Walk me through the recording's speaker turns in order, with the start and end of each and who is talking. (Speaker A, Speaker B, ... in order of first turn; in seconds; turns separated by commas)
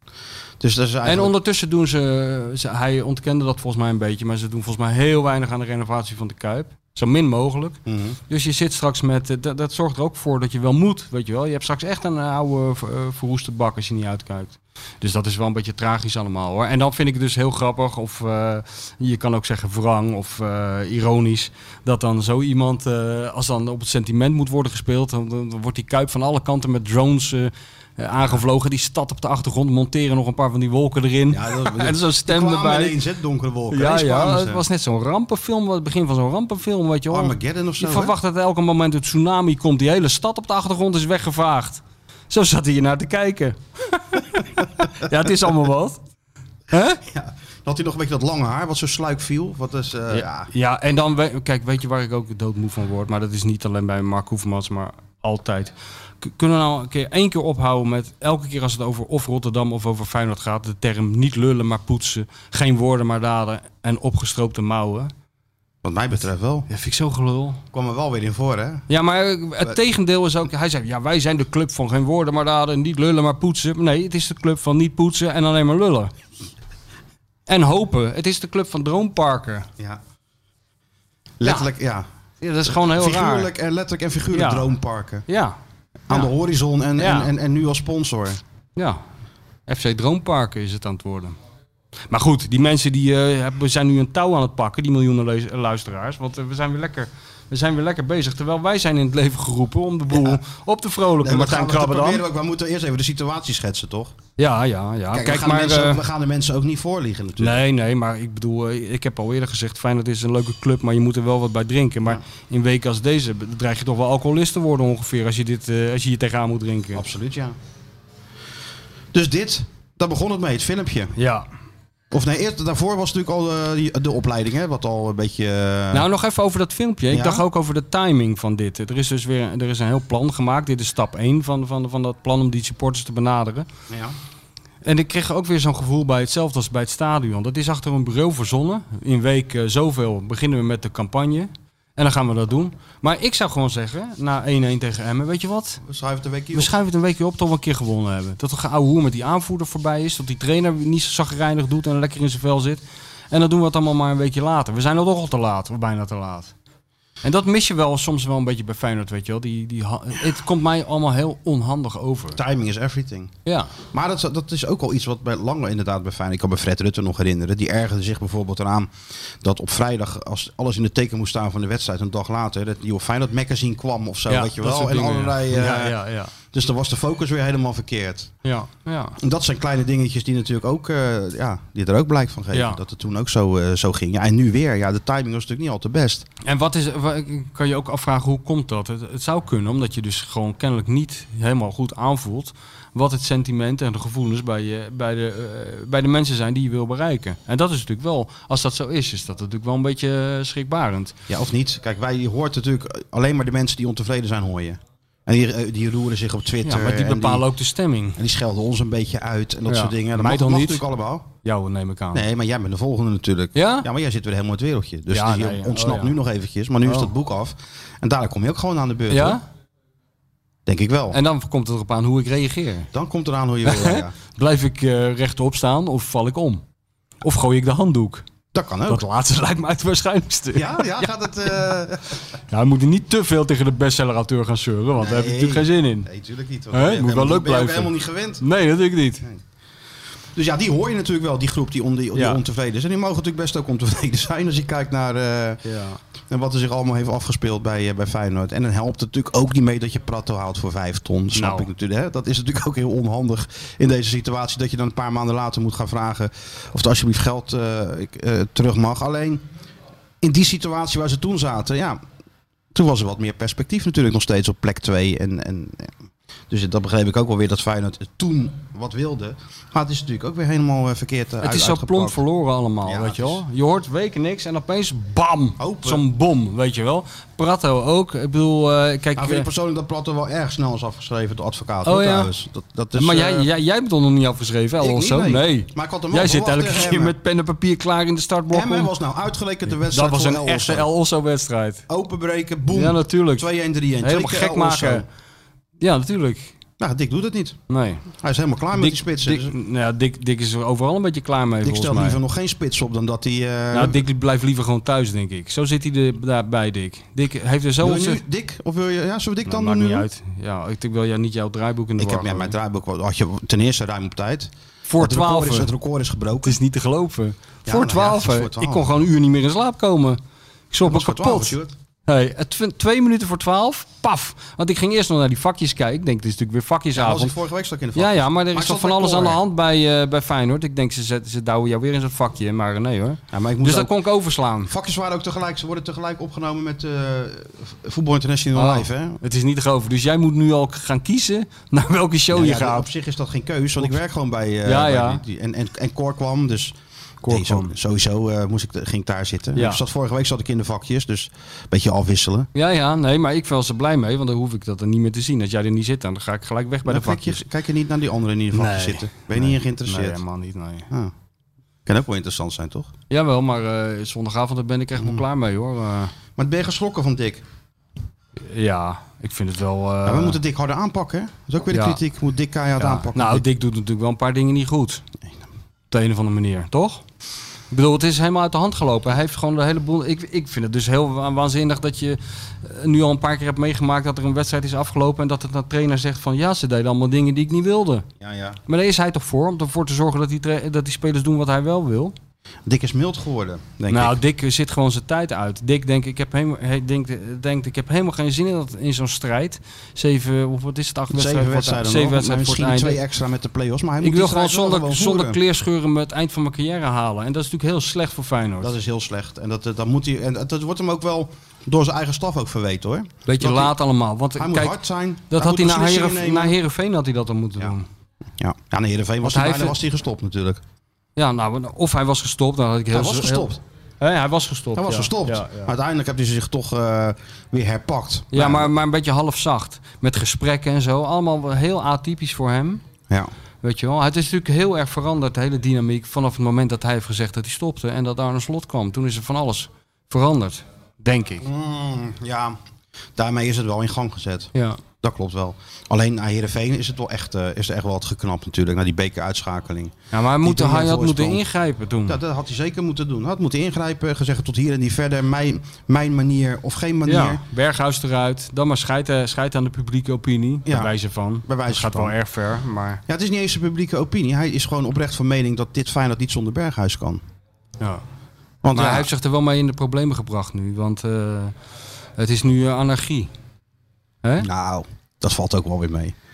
Speaker A: 0.6-1.3, Speaker B: 1.1-33.0, Speaker A: 7.9-8.2, Speaker A: 31.3-34.6, Speaker B: 33.7-46.0, Speaker A: 37.1-38.1, Speaker B: 46.7-47.0, Speaker A: 47.0-50.5, Speaker B: 50.1-65.1, Speaker A: 65.8-66.7, Speaker B: 66.7-67.6, Speaker A: 67.7-68.9, Speaker B: 68.9-76.1, Speaker B: 77.5-79.7, Speaker A: 81.4-82.1, Speaker B: 82.4-83.5, Speaker A: 82.7-85.3, Speaker B: 84.3-84.7, Speaker B: 85.3-85.6, Speaker A: 86.1-88.4, Speaker B: 87.0-87.3, Speaker B: 88.8-89.0, Speaker B: 89.7-91.4, Speaker B: 92.1-102.2, Speaker A: 100.1-100.4, Speaker A: 101.2-104.2, Speaker B: 104.4-106.0, Speaker A: 105.1-107.6, Speaker B: 107.4-117.0, Speaker A: 117.0-117.6, Speaker A: 119.1-121.1, Speaker B: 121.2-121.5, Speaker A: 122.1-126.1, Speaker B: 125.9-133.7, Speaker A: 127.1-127.5, Speaker A: 133.9-134.2, Speaker B: 134.8-145.8, Speaker A: 145.8-146.8, Speaker B: 146.5-156.5, Speaker B: 157.2-162.4, Speaker A: 162.3-163.3, Speaker B: 163.5-163.7, Speaker A: 163.9-178.3, Speaker B: 174.3-176.3, Speaker B: 178.4-179.2, Speaker A: 179.2-186.3, Speaker B: 182.5-182.8, Speaker B: 186.4-201.2, Speaker A: 201.3-207.5, Speaker B: 206.6-208.2, Speaker A: 208.2-211.3, Speaker B: 209.7-210.8, Speaker B: 211.4-212.2, Speaker A: 212.1-219.4, Speaker B: 213.6-213.9, Speaker B: 215.1-216.2, Speaker B: 216.8-217.1, Speaker B: 219.1-219.4, Speaker A: 220.7-221.2, Speaker B: 221.1-222.9, Speaker A: 222.9-224.1, Speaker B: 223.7-226.6, Speaker B: 227.2-228.2, Speaker A: 228.5-229.1, Speaker B: 228.9-231.1, Speaker A: 230.5-232.2, Speaker B: 232.5-236.1, Speaker A: 235.0-238.4, Speaker B: 236.7-239.2, Speaker A: 240.4-245.6, Speaker B: 242.2-242.4, Speaker B: 245.7-246.0, Speaker A: 246.3-259.5, Speaker B: 251.3-251.7, Speaker A: 260.2-262.0, Speaker A: 262.7-265.9, Speaker A: 266.5-272.2, Speaker B: 271.4-279.5, Speaker A: 272.9-273.4, Speaker A: 275.6-276.0, Speaker A: 279.2-283.5, Speaker B: 281.9-282.3, Speaker B: 282.9-288.9, Speaker A: 284.8-287.2, Speaker A: 288.5-290.9, Speaker B: 289.9-291.9, Speaker A: 291.9-295.1, Speaker B: 292.7-293.5, Speaker B: 294.0-295.0, Speaker B: 295.8-296.5, Speaker A: 296.8-297.6, Speaker B: 297.7-298.1, Speaker A: 298.1-299.6, Speaker B: 298.7-302.2, Speaker A: 301.6-304.0, Speaker B: 303.7-308.2, Speaker A: 307.8-310.1, Speaker B: 309.5-312.6, Speaker A: 312.0-316.6, Speaker B: 314.9-315.7, Speaker B: 316.4-320.2, Speaker A: 317.7-318.9, Speaker B: 320.7-327.3, Speaker A: 320.8-321.7, Speaker A: 326.9-329.4, Speaker B: 328.0-334.7, Speaker A: 333.3-334.0, Speaker A: 334.7-339.2, Speaker B: 338.6-342.9, Speaker A: 342.3-346.8, Speaker B: 344.6-345.2, Speaker B: 347.2-347.7, Speaker A: 347.3-352.5, Speaker B: 349.6-349.8, Speaker B: 352.6-357.4, Speaker A: 356.9-360.2, Speaker B: 358.5-360.9, Speaker A: 361.9-362.9, Speaker B: 363.1-366.1, Speaker A: 365.0-365.2, Speaker A: 366.4-367.4, Speaker B: 368.5-370.4, Speaker A: 370.1-373.4, Speaker B: 371.7-372.0, Speaker B: 372.8-375.0, Speaker B: 375.9-377.0, Speaker B: 377.7-388.1, Speaker A: 388.2-388.6, Speaker B: 388.7-392.1, Speaker A: 392.7-394.2, Speaker B: 393.9-403.0, Speaker A: 401.1-405.4, Speaker B: 404.0-408.7, Speaker A: 408.6-413.7, Speaker B: 413.3-414.8, Speaker A: 414.4-416.6, Speaker B: 415.3-417.9, Speaker A: 418.4-420.6, Speaker B: 419.2-419.8, Speaker B: 421.2-425.7, Speaker A: 422.9-423.6, Speaker A: 424.8-428.7, Speaker B: 428.3-432.8, Speaker B: 433.6-441.4, Speaker A: 441.4-442.6, Speaker A: 443.2-451.4, Speaker B: 444.6-444.8, Speaker B: 450.1-452.2, Speaker A: 452.1-457.4, Speaker B: 457.1-463.0, Speaker A: 460.7-460.9, Speaker A: 461.4-462.2, Speaker A: 463.1-467.2, Speaker A: 468.6-469.1, Speaker B: 468.7-471.5, Speaker B: 472.2-473.3, Speaker A: 474.4-476.1